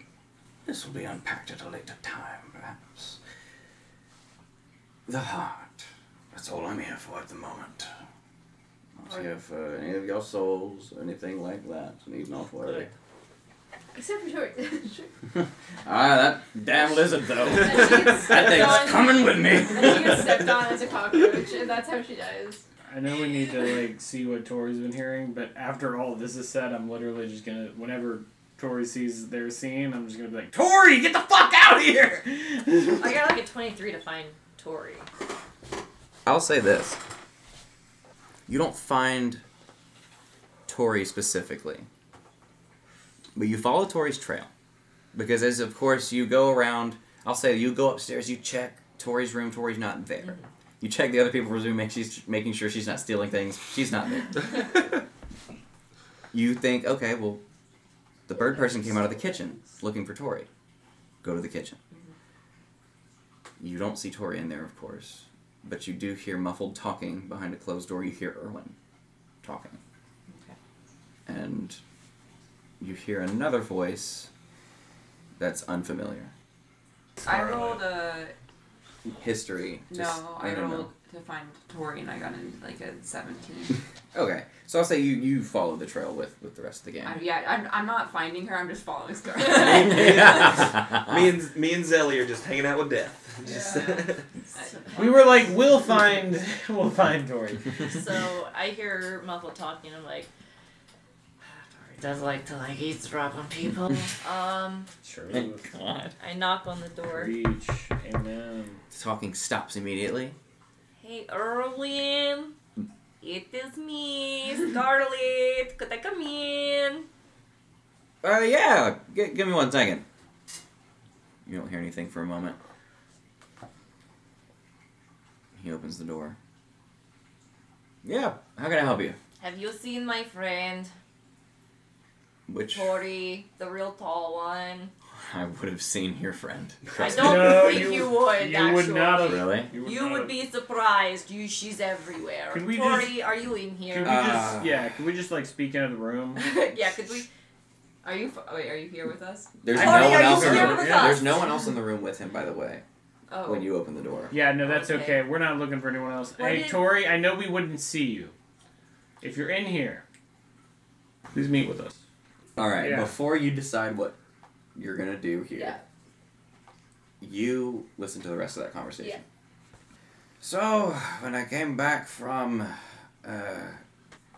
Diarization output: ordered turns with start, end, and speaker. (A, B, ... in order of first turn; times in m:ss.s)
0:00.6-0:03.2 A
0:05.1-0:07.9 A
0:09.0-0:12.9 A
0:13.9-0:15.1 B
0:15.4-0:20.6 A
0:17.5-0:22.6 B
0:22.9-0:33.1 C
0:33.0-0:35.1 D
0:36.3-0:37.0 A
0:38.5-0:39.4 A
0:40.7-0:41.9 A
0:43.4-0:44.5 A
0:45.1-0:54.9 A
0:56.3-0:57.4 A
0:58.3-1:00.5 A
1:01.2-1:01.8 A
1:03.6-1:08.8 A
1:09.4-1:09.8 A
1:11.3-1:11.8 A
1:12.8-1:14.3 A
1:15.4-1:16.3 A
1:17.2-1:17.8 C
1:17.2-1:18.3 E
1:19.1-1:20.9 A
1:19.9-1:23.8 E
1:24.1-1:27.2 A
1:27.0-1:30.1 E
1:29.5-1:34.2 F
1:30.0-1:31.1 A
1:34.6-1:35.4 E
1:35.0-1:37.9 C
1:37.8-1:40.3 D
1:41.6-1:44.9 D
1:45.0-1:45.7 C
1:45.3-1:46.2 A
1:46.2-1:47.3 D
1:47.1-1:48.8 C
1:48.9-1:50.4 A
1:51.0-1:52.6 D
1:53.2-1:57.1 D
1:58.2-2:00.0 A
2:01.5-2:02.6 A
2:05.6-2:06.4 A
2:08.0-2:09.2 A
2:09.4-2:10.9 D
2:12.5-2:13.0 A
2:12.7-2:14.9 D
2:15.2-2:17.9 A
2:17.0-2:24.2 D
2:17.0-2:20.3 C
2:19.2-2:19.7 A
2:22.5-2:23.2 C
2:23.9-2:26.4 C
2:24.0-2:24.9 A
2:26.4-2:27.3 E
2:28.0-2:29.5 E
2:29.6-2:32.8 A
2:29.7-2:31.2 C
2:29.7-2:31.4 D
2:33.3-2:33.7 E
2:33.4-2:34.4 A
2:34.3-2:38.4 C
2:34.7-2:35.1 D
2:34.8-2:35.2 E
2:36.4-2:36.8 D
2:36.4-2:36.7 E
2:39.2-2:40.0 C
2:41.3-2:42.0 C
2:42.6-2:44.2 A
2:42.8-2:43.1 C
2:44.8-2:45.8 A
2:45.5-2:45.8 B
2:47.2-2:49.2 A
2:50.4-2:53.8 A